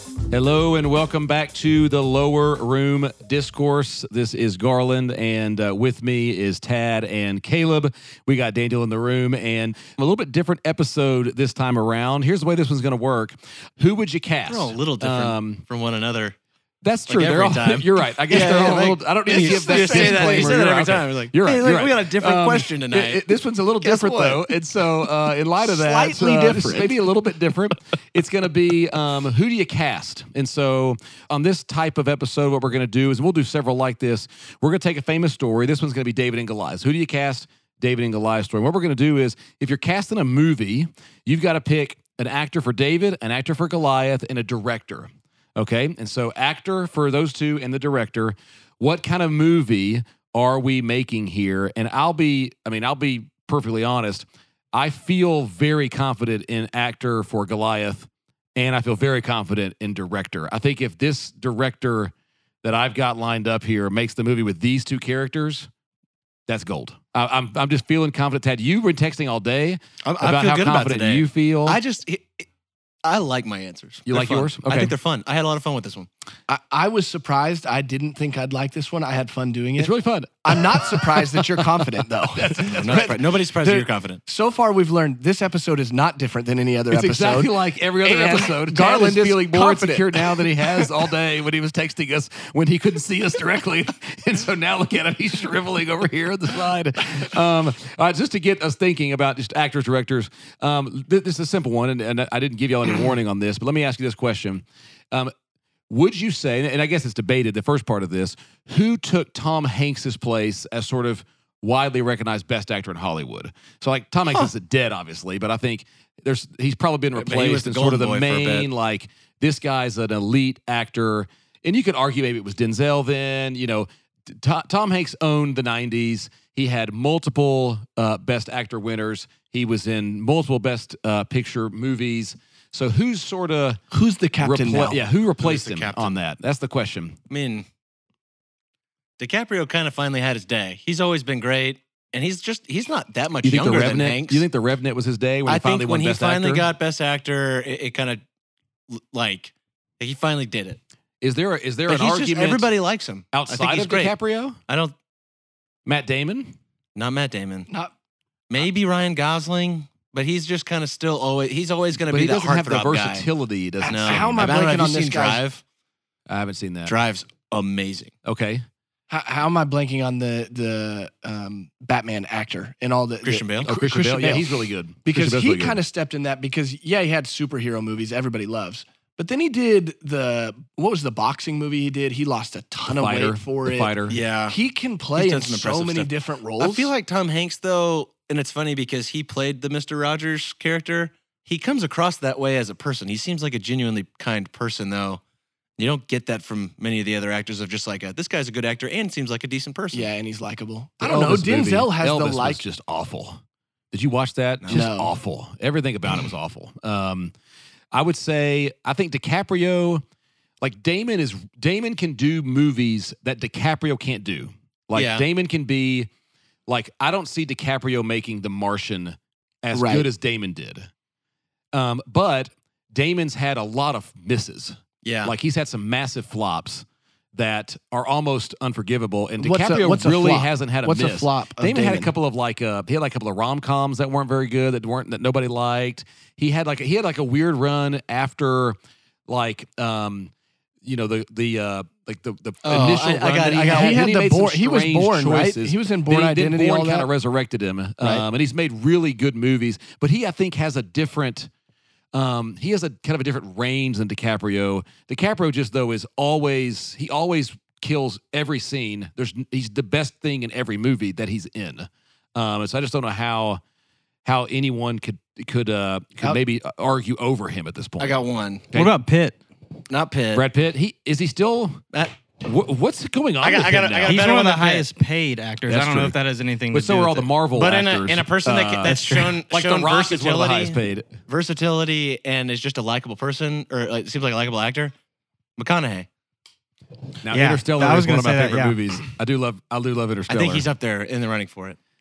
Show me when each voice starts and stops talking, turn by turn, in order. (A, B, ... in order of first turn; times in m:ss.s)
0:00.3-0:15.6 A
0:14.5-0:16.3 B
0:16.8-1:05.7 A
0:17.1-0:23.2 B
0:18.3-0:20.6 C
0:23.8-0:24.3 C
0:24.0-0:24.3 B
0:25.6-0:27.0 C
1:06.5-1:11.8 A
1:10.0-1:12.4 B
1:13.0-1:16.1 B
1:14.1-1:14.9 A
1:16.5-1:19.9 C
1:19.8-1:21.8 A
1:20.4-1:30.8 C
1:22.4-1:22.8 A
1:22.7-1:24.2 B
1:26.9-1:45.3 A
1:45.9-2:13.8 A
1:57.2-1:58.7 B
2:13.9-2:15.0 C
2:14.4-2:17.2 A
2:15.4-2:16.1 B
2:17.3-2:17.6 B
2:19.2-2:24.4 B
2:23.4-2:26.6 A
2:25.4-2:28.2 B
2:28.9-2:30.8 B
2:31.2-2:32.7 A
2:31.9-2:34.1 B
2:33.3-2:34.6 A
2:34.7-2:34.9 B
2:35.8-2:36.5 A
2:36.9-2:37.7 B
2:38.5-2:43.2 B
2:42.1-2:44.5 A
2:43.8-2:45.4 C
2:43.8-2:45.6 B
2:46.3-2:46.9 A
2:46.9-2:48.1 B
2:48.2-2:48.6 A
2:49.1-3:03.9 C
2:53.2-2:53.7 B
2:53.6-2:55.8 A
3:02.9-3:04.2 A
3:04.1-3:04.6 B
3:04.5-3:06.9 C
3:05.1-3:15.2 B
3:15.8-3:20.1 B
3:19.9-3:22.6 C
3:21.0-3:23.4 A
3:23.9-3:27.3 A
3:24.7-3:25.1 C
3:27.9-3:30.0 A
3:30.6-3:36.1 A
3:34.9-3:35.2 B
3:36.7-3:40.9 A
3:39.7-3:40.0 C
3:41.7-4:00.3 A
3:45.0-3:45.3 B
3:49.4-3:52.1 C
4:00.8-4:11.5 A
4:02.6-4:04.0 B
4:03.7-4:07.1 C
4:12.1-4:23.6 A
4:24.2-4:28.2 A
4:28.0-4:28.6 B
4:28.7-4:29.0 A
4:28.7-4:29.4 D
4:29.9-4:30.4 B
4:30.3-4:31.8 A
4:32.4-4:34.2 A
4:33.4-4:34.8 B
4:34.1-4:37.3 D
4:35.7-4:36.2 A
4:36.7-4:41.1 A
4:37.5-4:44.9 B
4:38.8-4:39.3 D
4:45.6-4:46.1 B
4:47.2-4:50.6 A
4:47.3-4:48.8 D
4:47.3-4:48.6 B
4:50.3-4:51.8 B